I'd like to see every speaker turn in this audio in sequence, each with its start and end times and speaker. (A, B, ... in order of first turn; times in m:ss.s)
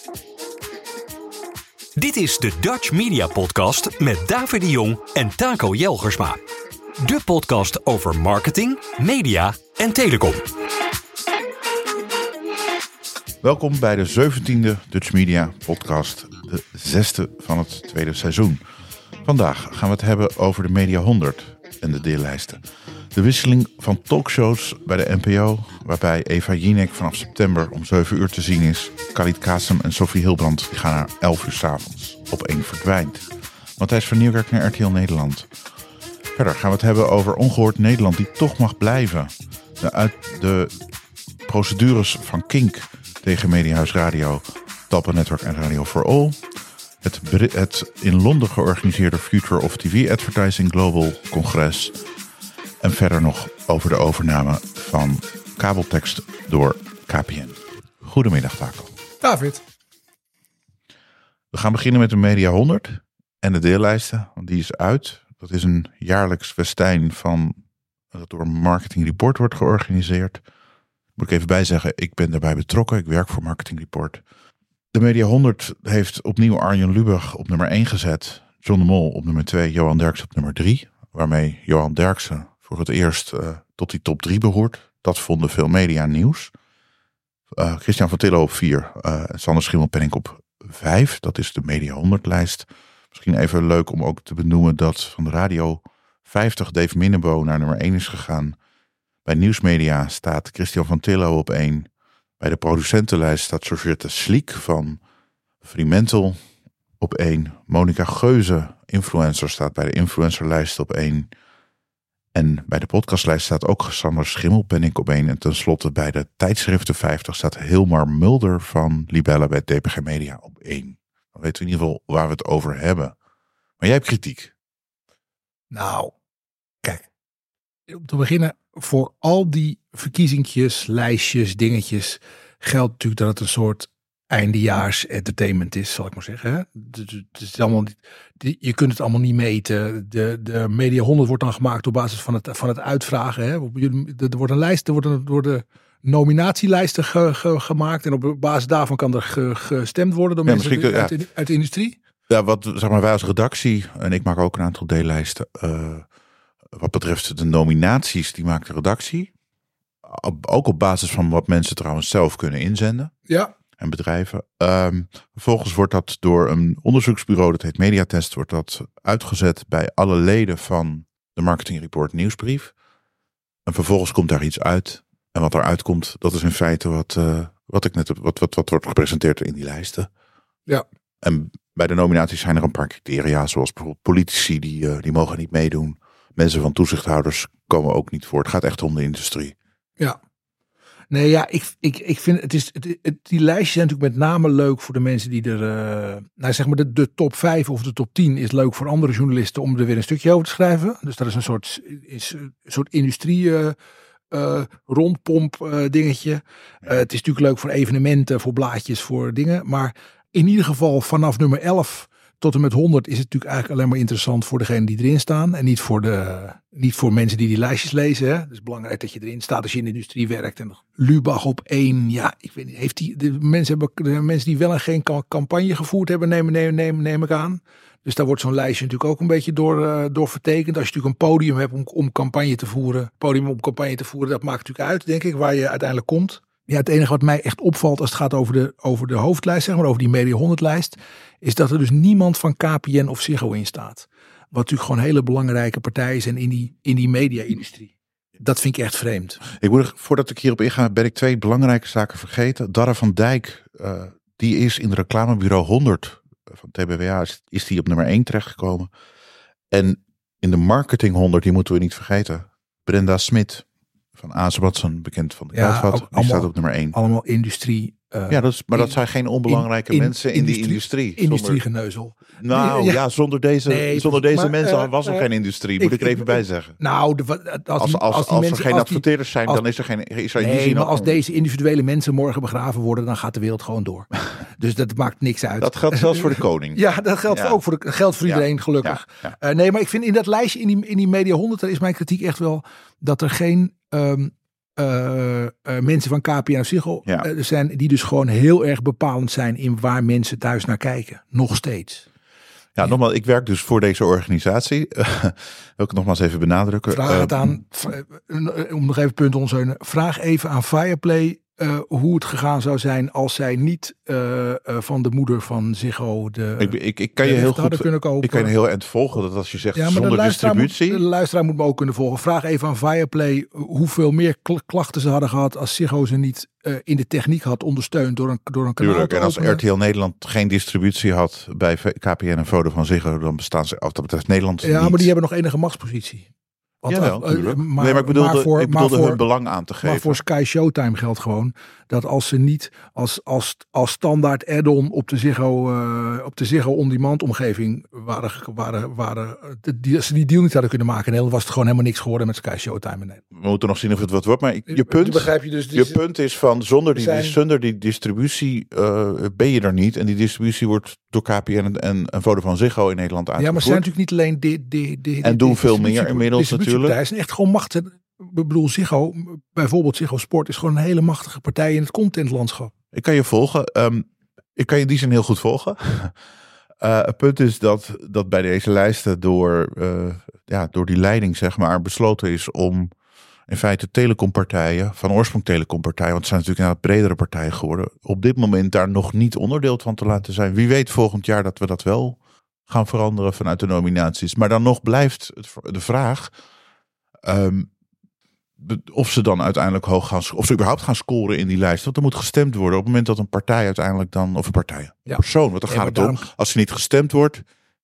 0:02.0-0:06.4 A
0:07.0-0:10.4 A
0:13.4-0:18.6 B
0:19.2-0:22.6 B
0:23.1-0:35.5 B
0:36.3-0:40.8 B
0:41.4-0:46.4 B
0:47.0-0:52.0 B
0:52.8-0:58.9 B
0:59.2-0:59.6 C
1:01.5-1:07.6 B
1:08.1-1:10.4 B
1:11.2-1:14.2 B
1:14.9-1:26.5 B
1:27.5-1:38.6 B
1:39.2-1:41.9 B
1:42.4-1:45.0 B
1:45.6-1:46.4 B
1:47.0-1:51.3 B
1:52.3-2:03.1 B
2:03.8-2:04.5 B
2:05.7-2:06.1 C
2:07.9-2:32.0 C
2:30.4-2:31.2 B
2:32.3-2:36.0 B
2:36.7-2:39.3 B
2:40.0-2:43.1 B
2:43.3-2:43.5 C
2:43.8-2:52.7 B
2:53.6-3:00.1 B
3:01.2-3:09.5 B
3:11.1-3:23.8 C
3:24.3-4:09.4 C
4:09.4-4:18.9 B
4:19.7-4:23.6 B
4:24.2-4:27.0 B
4:25.5-4:33.0 C
4:28.3-4:31.6 B
4:32.4-4:36.8 B
4:33.7-4:35.3 C
4:35.8-4:39.6 C
4:37.8-4:41.2 B
4:40.4-5:02.0 C
4:45.6-4:47.6 B
4:48.2-4:49.3 B
5:02.8-5:07.6 B
5:06.9-5:18.5 C
5:16.6-5:21.0 B
5:19.7-5:29.6 C
5:28.8-5:35.1 B
5:34.6-5:36.3 C
5:36.8-5:39.2 C
5:36.9-5:40.2 B
5:39.8-5:53.2 C
5:53.3-6:03.8 B
5:54.7-5:56.0 C
5:56.9-5:57.4 C
6:03.4-6:12.7 C
6:05.2-6:07.0 B
6:12.9-6:16.1 B
6:16.8-6:22.9 B
6:23.5-6:36.3 B
6:37.2-6:37.7 B
6:38.6-6:47.4 B
6:45.1-6:46.2 C